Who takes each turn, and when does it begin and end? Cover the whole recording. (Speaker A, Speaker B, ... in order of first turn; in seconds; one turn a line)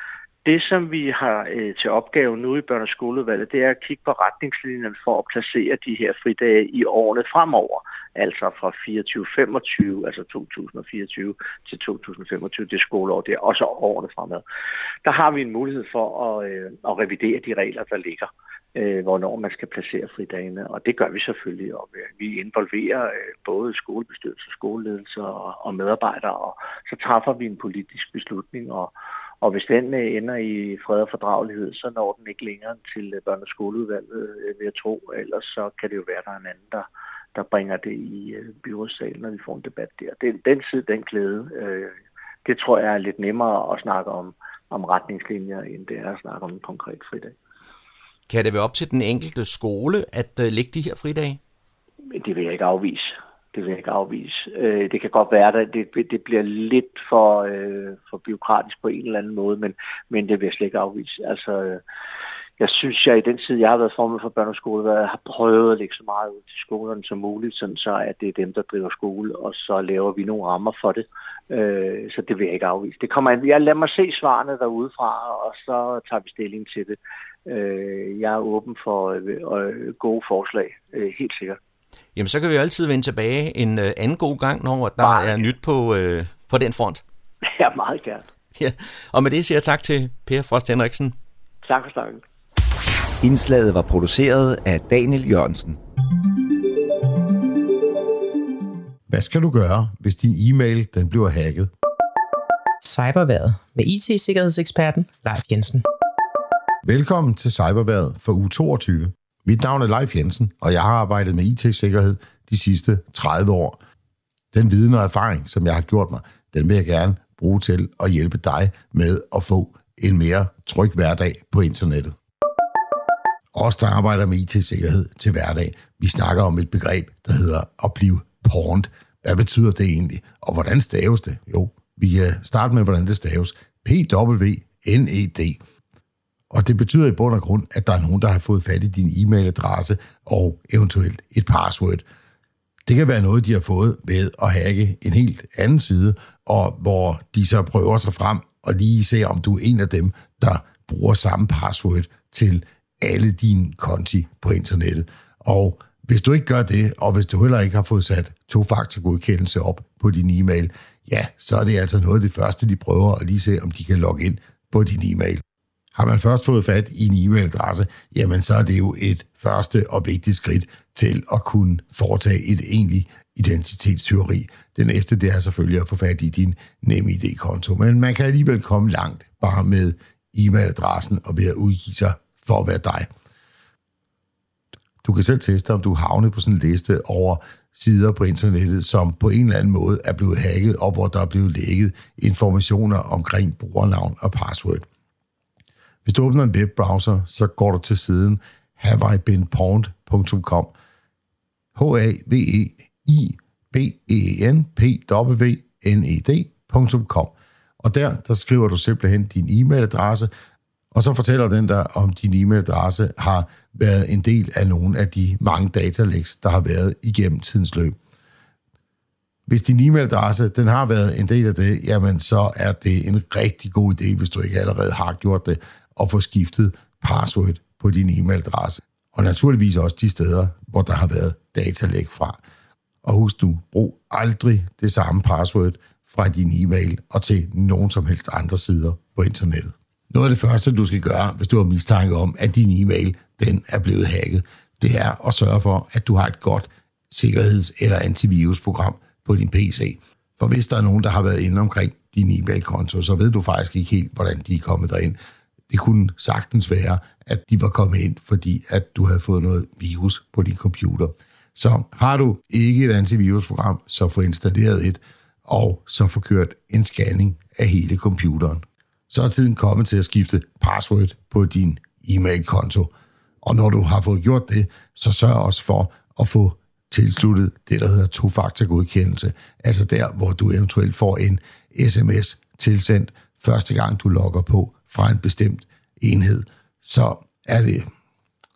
Speaker A: 0.4-14.4
Speaker A: 15.0-41.9
Speaker A: 42.4-47.3
Speaker B: 48.3-51.4
Speaker A: 52.1-61.8
Speaker A: 62.6-81.6
Speaker B: 82.2-87.0
Speaker A: 87.5-88.2
Speaker B: 88.6-91.2
Speaker A: 91.6-92.2
Speaker C: 93.2-95.8
Speaker D: 99.1-101.7
Speaker E: 102.8-105.8
Speaker D: 106.8-113.8
Speaker D: 114.5-122.2
Speaker D: 123.5-135.6
Speaker D: 136.5-142.0
Speaker D: 142.8-165.4
Speaker D: 165.9-183.1
Speaker D: 185.0-194.8
Speaker D: 196.0-200.7
Speaker D: 201.8-210.3
Speaker D: 210.9-217.9
Speaker D: 219.5-232.4
Speaker D: 233.0-255.2
Speaker D: 255.7-272.9
Speaker D: 273.4-287.9